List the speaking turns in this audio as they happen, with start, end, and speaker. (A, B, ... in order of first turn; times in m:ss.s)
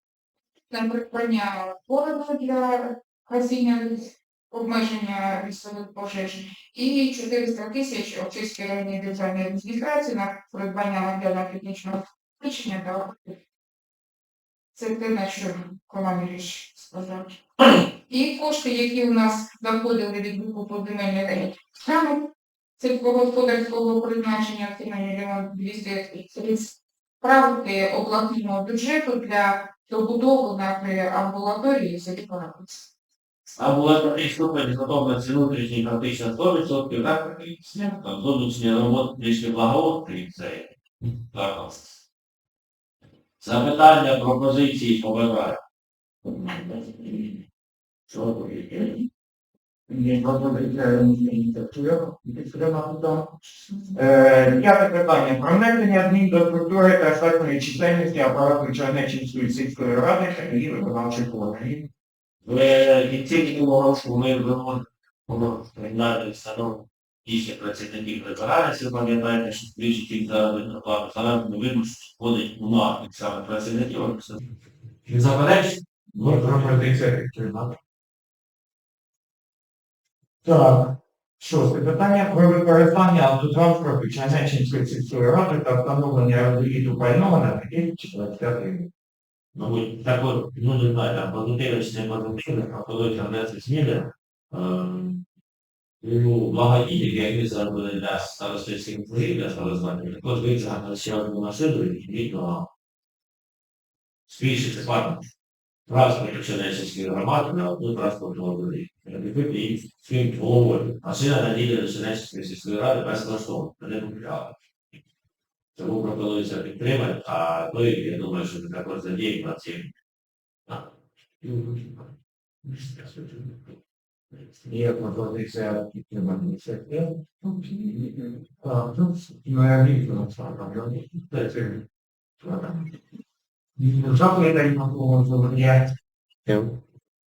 0:00.7-0:13.3 A
0:14.8-0:22.2 A
0:22.8-0:32.8 A
0:33.6-0:41.9 B
0:43.4-0:45.6 B
0:46.4-0:47.3 B
0:48.1-0:49.0 B
0:49.9-0:53.3 C
0:53.9-1:01.9 C
1:02.4-1:14.4 B
1:15.1-1:17.0 B
1:16.2-1:17.6 C
1:20.4-1:28.9 C
1:29.5-1:35.2 B
1:36.0-1:42.7 B
1:44.3-1:45.3 B
1:45.9-1:54.5 B
1:55.8-1:59.9 B
2:01.4-2:02.0 B
2:02.8-2:03.5 B
2:04.6-2:11.8 C
2:12.4-2:12.9 C
2:13.8-2:15.9 C
2:16.5-2:16.7 C